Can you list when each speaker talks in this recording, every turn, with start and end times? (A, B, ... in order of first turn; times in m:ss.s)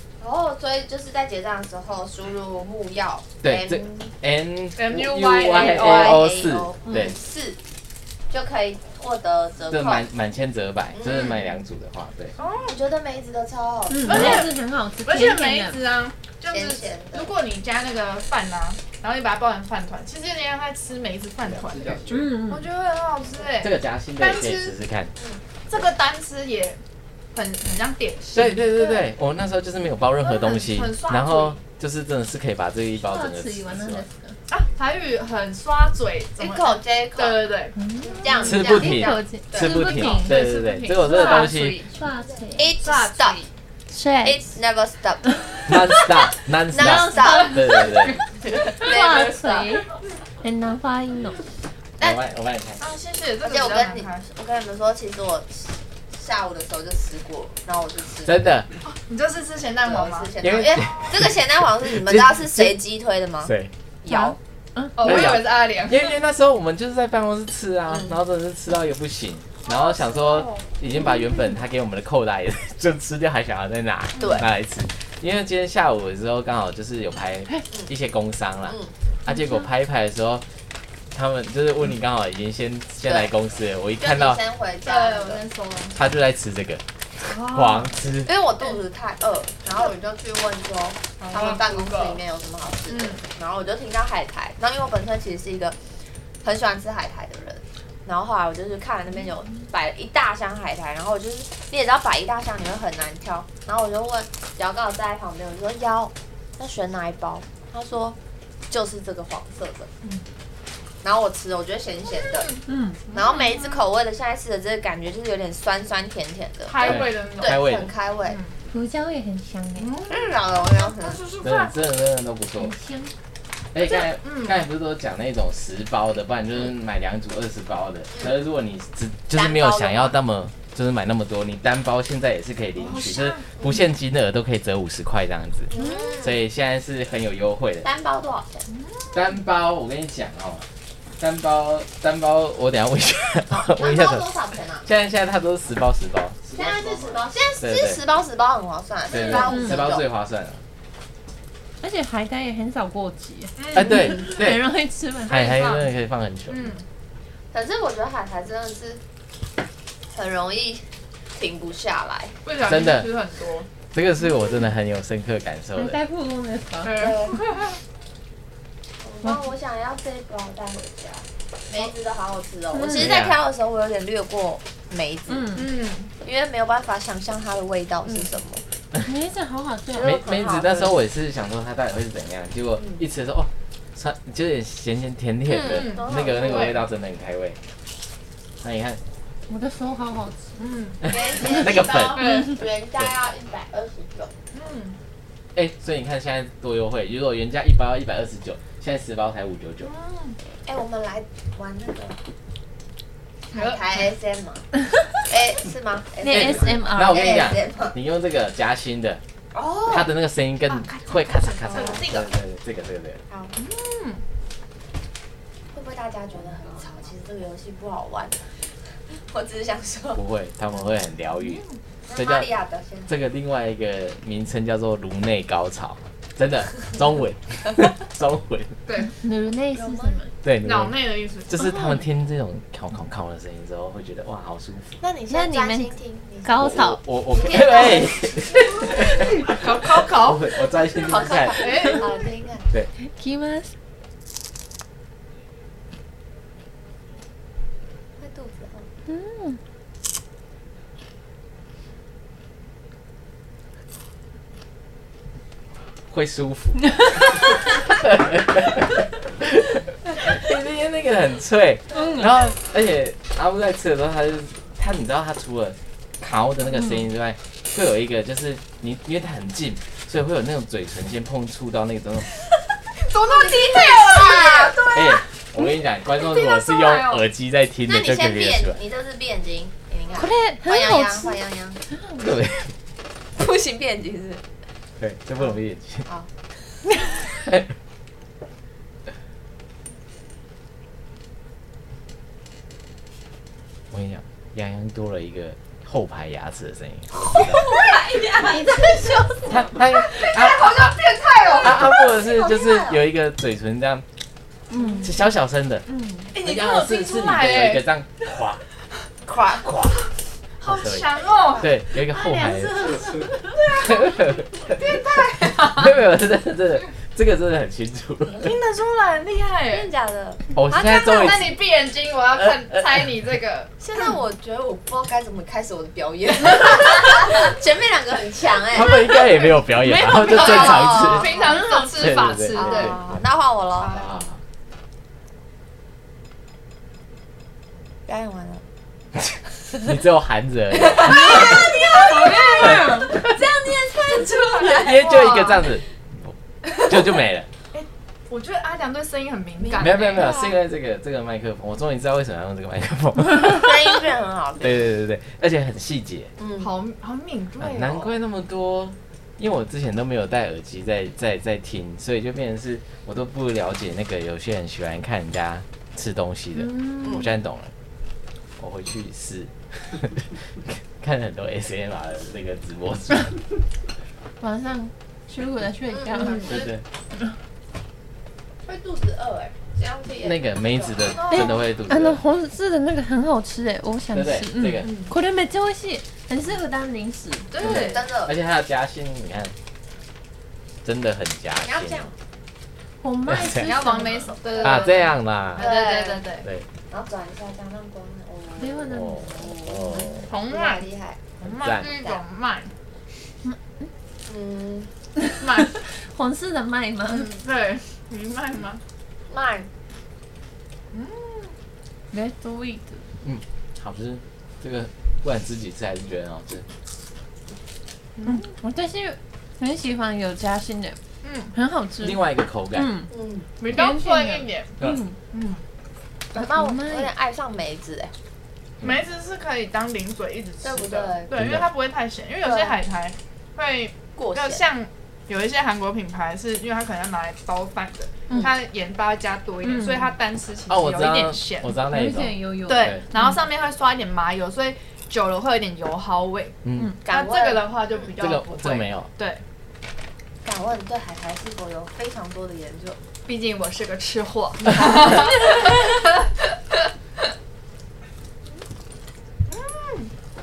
0:00.2-0:04.1 A
0:03.4-0:07.2 B
0:04.8-0:06.2 C
0:05.5-0:07.6 A
0:08.3-0:10.1 A
0:09.7-0:12.4 B
0:10.9-0:11.4 A
0:12.4-0:12.8 C
0:12.6-0:14.5 A
0:13.9-0:15.8 D
0:14.0-0:24.8 C
0:16.5-0:17.3 A
0:22.1-0:22.6 D
0:23.6-0:25.1 B
0:25.2-0:25.4 A
0:25.7-0:26.8 C
0:27.3-0:29.0 C
0:28.3-0:34.0 B
0:30.2-0:31.6 C
0:33.0-0:34.4 D
0:34.5-0:38.5 C
0:36.4-0:37.4 A
0:37.8-0:42.7 D
0:38.0-0:40.2 A
0:38.4-0:41.8 B
0:39.7-0:41.7 C
0:42.6-0:43.4 A
0:42.8-0:43.5 C
0:43.9-0:44.4 D
0:44.2-0:45.3 A
0:45.3-0:46.0 D
0:45.7-0:48.2 B
0:46.7-0:47.8 A
0:46.8-0:47.6 D
0:47.7-0:48.2 C
0:48.4-0:49.8 A
0:48.6-0:51.4 D
0:52.0-0:52.8 B
0:52.8-0:54.3 C
0:53.4-0:58.4 A
0:58.2-0:58.7 B
0:58.8-1:00.3 C
0:59.8-1:03.5 A
1:00.4-1:01.3 B
1:01.8-1:02.8 B
1:03.4-1:03.7 B
1:04.0-1:04.4 A
1:04.1-1:05.2 D
1:05.0-1:06.2 C
1:05.0-1:20.4 B
1:09.7-1:10.6 C
1:14.2-1:14.4 A
1:14.2-1:14.5 C
1:19.3-1:19.6 D
1:21.1-1:24.4 B
1:24.0-1:25.4 A
1:24.8-1:26.0 C
1:26.0-1:28.3 B
1:27.2-1:27.9 C
1:28.3-1:35.8 A
1:31.2-1:32.2 C
1:32.9-1:33.2 C
1:36.4-1:48.2 A
1:48.7-1:49.9 A
1:51.0-1:52.6 A
1:52.4-1:53.8 C
1:52.7-1:53.0 D
1:53.1-1:58.4 A
1:56.7-1:57.6 C
1:56.8-1:57.9 B
1:58.3-1:58.5 C
1:58.7-2:00.0 D
1:59.8-2:01.8 C
2:00.1-2:01.2 A
2:01.4-2:02.7 B
2:02.6-2:03.1 D
2:03.7-2:17.9 B
2:03.8-2:04.6 C
2:09.3-2:10.2 A
2:12.8-2:13.7 C
2:15.7-2:16.4 A
2:17.8-2:18.6 A
2:18.7-2:19.4 C
2:19.1-2:20.7 B
2:21.2-2:24.2 B
2:23.5-2:24.9 A
2:24.8-2:26.5 B
2:26.5-2:30.0 A
2:27.6-2:28.0 B
2:29.1-2:30.6 B
2:29.4-2:29.8 D
2:31.8-2:35.7 D
2:33.6-2:34.2 C
2:33.7-2:34.7 B
2:35.3-2:36.7 B
2:35.3-2:35.9 C
2:36.5-2:36.8 C
2:37.5-2:39.0 A
2:40.1-2:42.4 A
2:42.4-2:43.7 C
2:42.6-2:43.1 B
2:43.9-2:46.0 B
2:45.8-2:47.2 D
2:46.8-2:47.8 C
2:47.0-2:47.4 A
2:49.0-2:55.6 A
2:52.7-2:53.1 D
2:52.8-2:53.4 B
2:55.3-2:55.7 D
2:55.5-2:56.1 C
2:56.2-2:58.6 A
2:59.0-3:00.2 D
2:59.9-3:01.0 A
3:00.0-3:07.6 B
3:05.5-3:06.8 A
3:05.6-3:06.8 C
3:08.6-3:09.0 B
3:09.5-3:10.6 D
3:10.6-3:11.1 C
3:11.0-3:12.4 B
3:11.0-3:14.3 A
3:12.1-3:12.6 C
3:12.2-3:12.5 D
3:14.5-3:15.0 C
3:15.6-3:19.9 B
3:19.8-3:20.4 C
3:20.7-3:22.2 A
3:23.5-3:24.7 A
3:23.5-3:23.8 C
3:25.2-3:28.0 A
3:26.2-3:27.5 D
3:26.3-3:29.2 B
3:29.5-3:30.1 A
3:29.9-3:33.2 B
3:30.7-3:32.2 C
3:31.7-3:32.2 A
3:33.3-3:33.5 A
3:33.6-3:34.2 C
3:35.7-3:40.2 A
3:40.2-3:41.6 B
3:41.4-3:41.8 C
3:42.1-3:43.1 A
3:42.2-3:42.5 B
3:43.1-3:48.8 B
3:48.9-3:49.1 C
3:49.0-3:50.3 D
3:49.7-3:50.2 A
3:50.4-3:55.0 B
3:50.6-3:51.6 C
3:51.6-3:52.0 D
3:55.0-3:56.8 A
3:55.3-3:57.0 D
3:56.6-4:02.0 B
3:57.3-3:58.5 A
3:59.4-4:00.6 C
4:01.0-4:02.7 A
4:01.6-4:02.1 C
4:03.0-4:03.7 D
4:08.2-4:08.9 A
4:09.1-4:09.6 D
4:16.1-4:32.3 B
4:22.0-4:22.2 D
4:33.0-4:35.2 C
4:33.1-4:34.9 A
4:34.9-4:38.8 B
4:36.1-4:37.2 C
4:37.9-4:41.8 A
4:40.2-4:41.4 D
4:41.9-4:42.2 D
4:42.2-4:42.7 B
4:43.4-4:44.4 A
4:45.0-4:46.1 B
4:47.3-4:47.7 B
4:53.9-4:57.7 B
4:57.3-4:59.0 A
4:58.4-4:59.5 D
4:59.5-5:01.0 B
4:59.8-5:03.0 A
5:00.4-5:01.7 C
5:01.6-5:04.1 B
5:04.7-5:05.2 D
5:05.0-5:08.6 B
5:05.9-5:06.3 D
5:06.3-5:07.9 C
5:09.3-5:09.7 A
5:09.5-5:10.0 B
5:10.6-5:11.7 C
5:10.6-5:18.5 B
5:11.9-5:13.9 D
5:13.5-5:16.0 C
5:18.4-5:19.9 C
5:19.7-5:20.4 A
5:20.5-5:21.6 B
5:20.7-5:24.1 C
5:22.4-5:23.0 B
5:23.8-5:29.1 A
5:28.7-5:31.4 B
5:30.0-5:33.0 C
5:30.2-5:31.8 A
5:31.9-5:33.0 B
5:32.5-5:34.0 A
5:33.8-5:34.2 C
5:33.9-5:34.4 B
5:38.1-5:38.6 A
5:39.8-5:41.7 B
5:41.0-5:45.0 A
5:41.0-5:45.6 C
5:42.6-5:43.2 B
5:44.6-5:47.5 B
5:47.7-5:50.3 C
5:49.6-5:50.6 A
5:49.8-5:54.0 B
5:53.4-5:54.9 A
5:54.6-5:56.3 B
5:56.4-5:56.7 A
5:56.6-5:58.1 C
5:57.6-6:07.7 B
6:06.6-6:07.3 D
6:08.6-6:13.4 B
6:14.4-6:16.6 D
6:15.9-6:16.7 A
6:16.4-6:16.8 B
6:18.7-6:21.6 A
6:20.2-6:22.2 B
6:21.3-6:27.6 D
6:24.1-6:24.9 B
6:27.5-6:28.0 C
6:27.5-6:28.4 A
6:27.6-6:29.5 B
6:30.8-6:32.1 B
6:31.6-6:32.1 A
6:33.0-6:34.4 D
6:33.3-6:33.8 B
6:33.5-6:36.5 C
6:34.4-6:35.0 A
6:34.6-6:35.7 B
6:35.6-6:36.3 A
6:36.9-6:41.2 A
6:38.6-6:39.5 D
6:38.9-6:40.3 B
6:40.3-6:40.8 C
6:41.4-6:41.9 B
6:41.4-6:42.7 C
6:41.8-6:42.2 A
6:43.4-6:43.9 D
6:44.3-6:44.9 A
6:45.4-6:45.8 C
6:45.7-6:47.4 D
6:47.1-6:48.8 C
6:49.3-6:49.7 A
6:50.9-6:51.5 C
6:52.1-6:53.0 D
6:53.2-6:56.7 B
6:58.2-6:58.4 C
6:58.2-7:01.0 D
7:01.2-7:01.5 C
7:01.5-7:02.2 D
7:02.0-7:02.9 B
7:02.7-7:03.1 D
7:03.1-7:03.5 A
7:03.6-7:04.8 C
7:03.6-7:05.2 D
7:05.3-7:05.6 C
7:06.3-7:08.1 A
7:06.4-7:07.1 D
7:08.8-7:21.8 C
7:10.6-7:11.3 A
7:11.3-7:11.7 B
7:12.4-7:12.8 A
7:14.2-7:14.6 A
7:19.6-7:20.1 D
7:20.7-7:23.0 B
7:21.9-7:23.4 D
7:22.7-7:29.4 C
7:26.6-7:26.9 B
7:27.0-7:28.1 A
7:28.2-7:29.1 B
7:30.4-7:33.0 A
7:33.3-7:36.1 C
7:39.5-7:40.1 C